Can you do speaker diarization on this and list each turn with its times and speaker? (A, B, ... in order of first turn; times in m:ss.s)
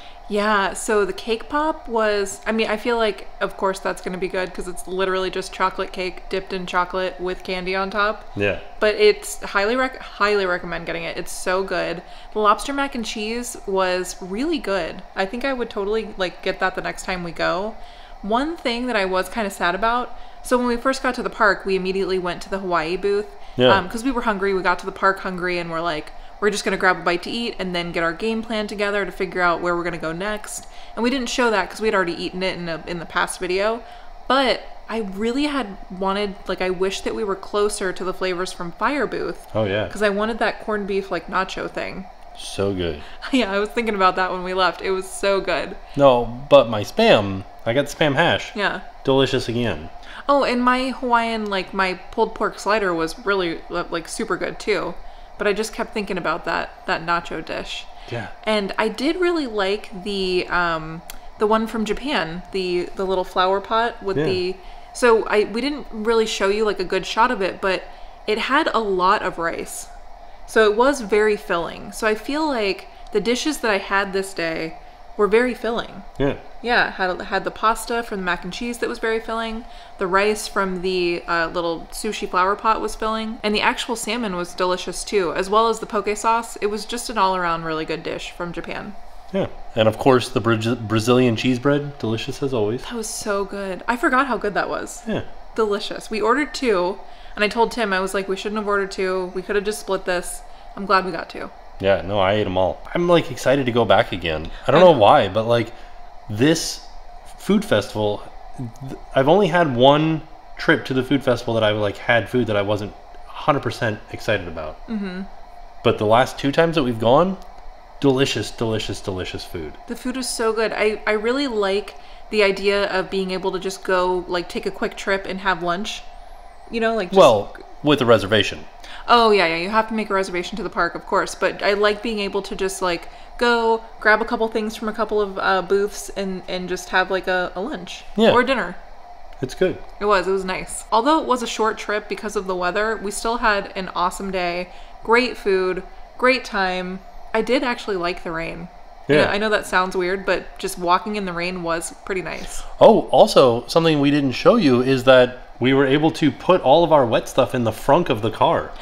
0:00.3-0:08.3 A
0:08.4-0:08.6 B
0:08.8-0:42.1 A
0:23.6-0:23.8 B
0:39.5-0:39.9 B
0:42.4-0:43.0 B
0:43.2-0:45.8 A
0:46.0-0:49.9 B
0:48.5-0:48.8 A
0:50.3-0:57.9 A
0:58.4-1:09.9 A
1:04.1-1:04.4 B
1:10.5-1:16.1 A
1:16.6-1:28.9 A
1:29.3-1:32.8 B
1:32.8-1:41.5 A
1:41.8-1:45.7 B
1:44.7-1:45.0 A
1:46.3-1:54.8 B
1:54.9-1:55.3 A
1:55.8-1:57.4 B
1:58.0-1:59.8 B
1:59.9-2:06.0 A
2:06.7-2:07.6 A
2:07.1-2:08.6 B
2:09.1-2:18.8 A
2:18.2-2:18.4 B
2:19.4-2:19.8 B
2:20.0-2:32.6 A
2:29.1-2:29.3 B
2:32.8-2:38.7 B